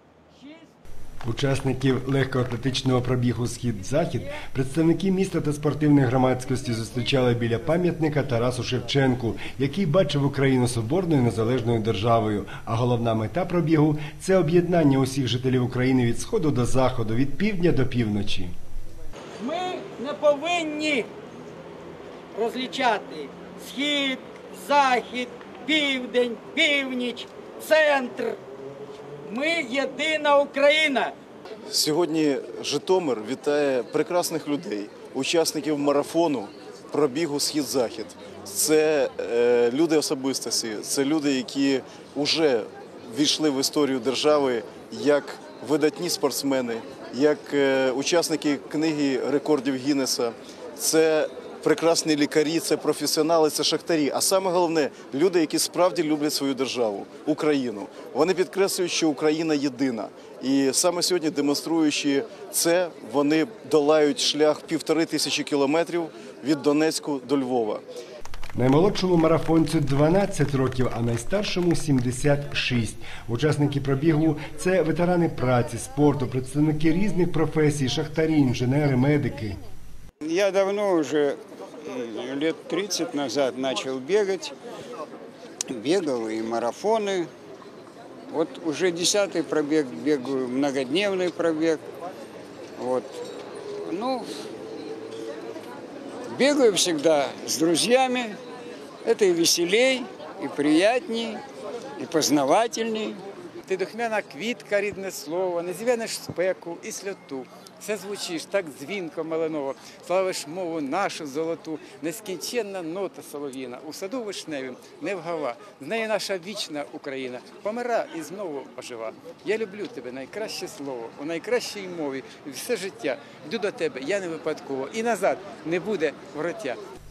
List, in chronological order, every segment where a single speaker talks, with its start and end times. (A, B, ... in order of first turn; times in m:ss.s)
0:00.3-0:00.7 A
0:01.2-0:18.5 B
0:19.4-0:21.1 A
0:22.3-0:28.4 A
0:29.2-0:31.1 A
0:31.7-1:07.8 C
1:08.5-1:19.6 B
1:20.2-1:24.5 D
1:25.7-1:27.3 D
1:28.3-1:31.8 D
1:32.8-1:33.2 D
1:33.9-1:34.2 D
1:36.3-1:38.4 D
1:39.0-1:41.4 D
1:42.0-1:43.2 D
1:43.6-2:06.8 E